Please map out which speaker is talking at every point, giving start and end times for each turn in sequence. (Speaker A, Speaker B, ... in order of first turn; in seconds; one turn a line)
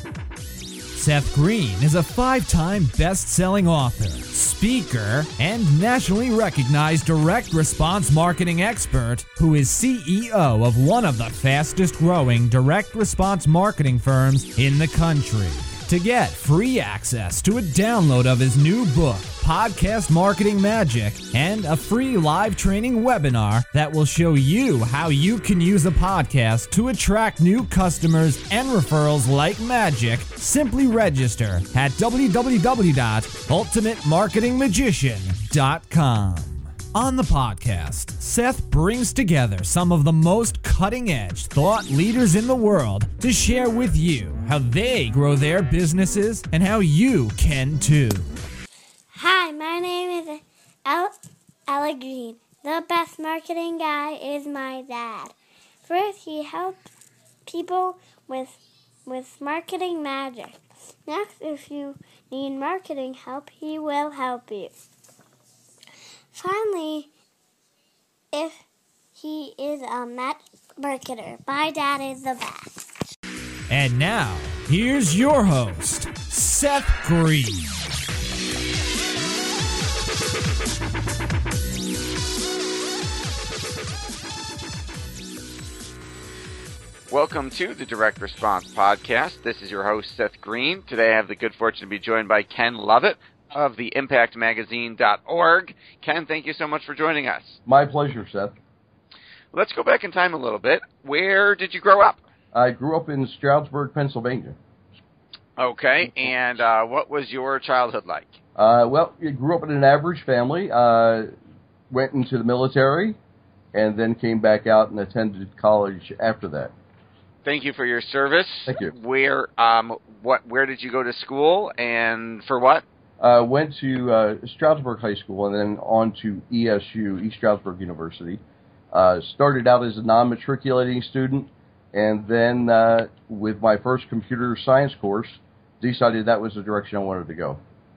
Speaker A: 0.9-48.3
Speaker B: 49.1-51.1
Speaker B: 51.7-55.3
Speaker B: 55.9-56.9
Speaker B: 57.5-64.7
Speaker B: 66.3-67.1
Speaker B: 68.3-68.6
Speaker B: 69.2-72.8
Speaker A: 73.7-77.7
Speaker C: 87.1-97.6
Speaker D: 97.7-98.5
Speaker C: 99.5-102.2
Speaker D: 102.5-104.5
Speaker C: 105.6-108.4
Speaker D: 108.5-111.3
Speaker D: 111.9-113.2
Speaker D: 113.7-116.7
Speaker C: 117.4-122.8
Speaker D: 118.7-118.9
Speaker D: 123.2-128.4
Speaker D: 128.9-137.6